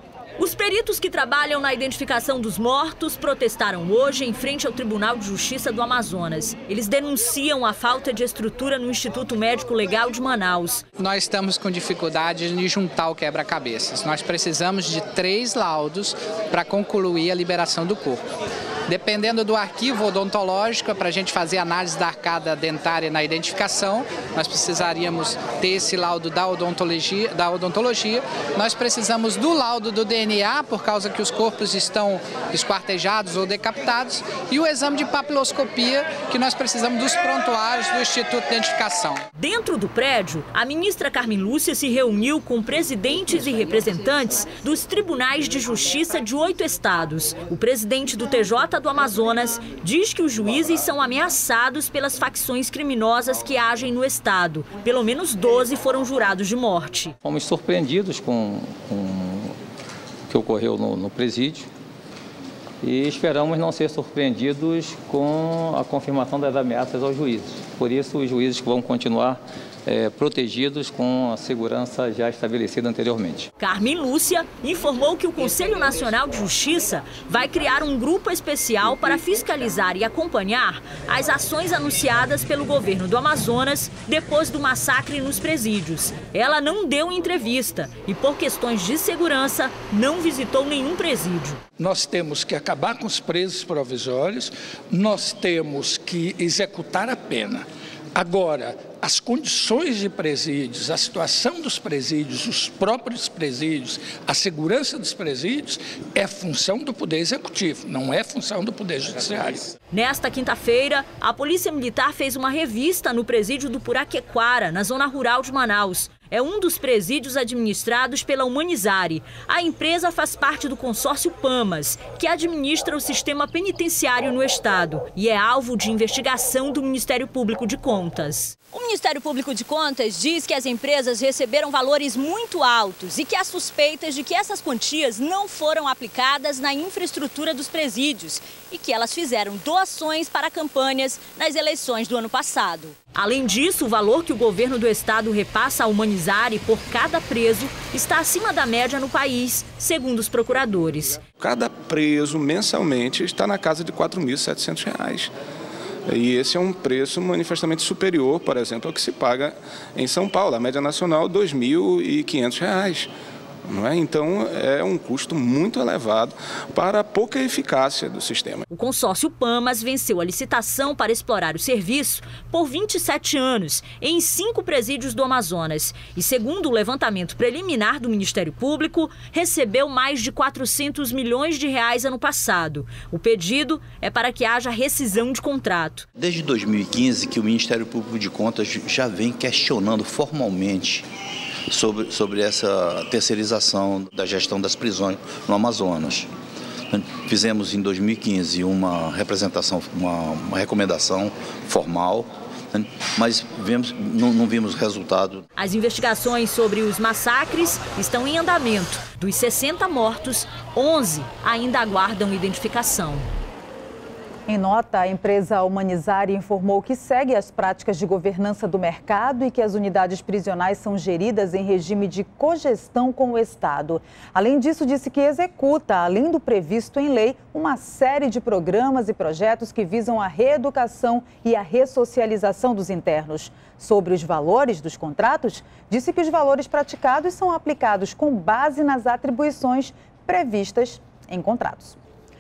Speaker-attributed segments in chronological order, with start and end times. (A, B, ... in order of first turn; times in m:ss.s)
0:00.4-0:10.8 A
0:11.0-0:18.2 B
0:18.9-0:39.2 B
0:39.4-0:57.1 A
0:57.2-0:59.6 C
1:00.3-1:01.7 C
1:02.8-1:13.5 C
1:13.6-1:31.6 A
1:31.8-1:49.7 D
1:49.9-2:31.2 A
2:31.4-2:35.3 E
2:36.1-2:43.1 E
2:43.7-2:48.7 E
2:48.7-3:06.1 A
3:06.2-3:11.0 F
3:11.7-3:16.3 F
3:16.9-3:25.4 F
3:25.6-3:33.3 A
3:34.5-4:02.0 G